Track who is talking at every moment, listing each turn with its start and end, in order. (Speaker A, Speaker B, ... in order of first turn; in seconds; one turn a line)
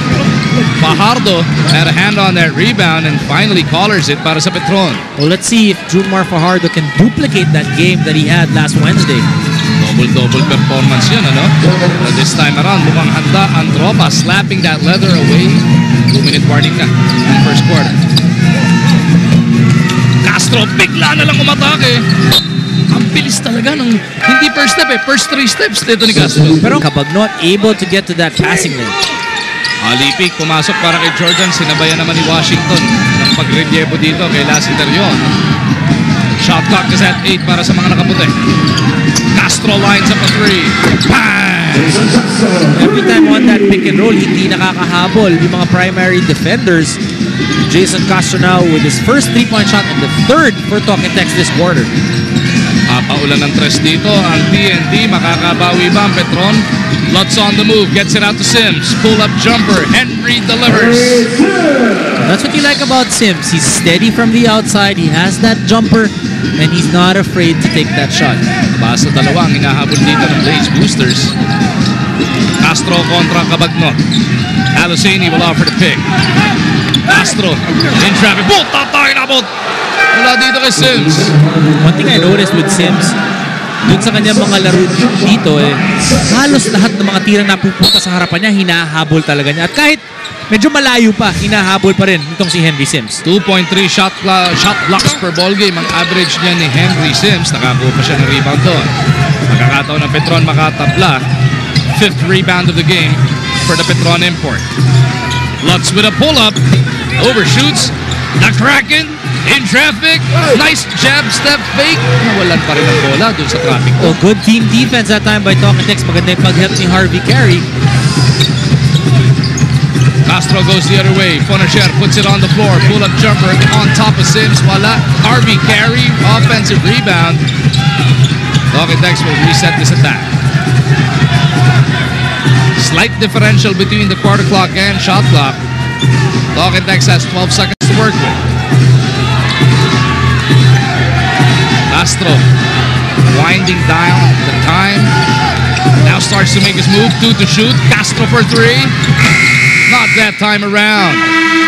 Speaker A: 0.6-5.0
Speaker B: 5.2-9.3
Speaker A: 9.8-18.0
Speaker A: 20.2-22.0
Speaker A: 22.9-26.8
Speaker B: 26.6-28.9
Speaker A: 29.8-35.3
Speaker A: 36.4-38.4
Speaker A: 39.3-42.1
Speaker B: 42.7-47.0
Speaker B: 47.6-51.9
Speaker A: 52.9-61.3
Speaker B: 62.2-68.4
Speaker A: 68.7-71.3
Speaker A: 72.6-74.0
Speaker A: 74.7-76.0
Speaker A: 77.1-79.5
Speaker A: 80.1-81.3
Speaker B: 81.8-83.1
Speaker B: 83.8-93.2
Speaker A: 93.2-98.9
Speaker A: 99.5-101.2
Speaker A: 101.9-104.7
Speaker A: 105.6-106.6
Speaker A: 107.2-114.2
Speaker B: 114.0-117.7
Speaker A: 120.2-127.4
Speaker A: 128.7-130.3
Speaker A: 132.7-135.6
Speaker A: 136.5-138.4
Speaker A: 141.9-142.4
Speaker A: 143.2-145.1
Speaker A: 146.0-148.9
Speaker A: 149.9-151.2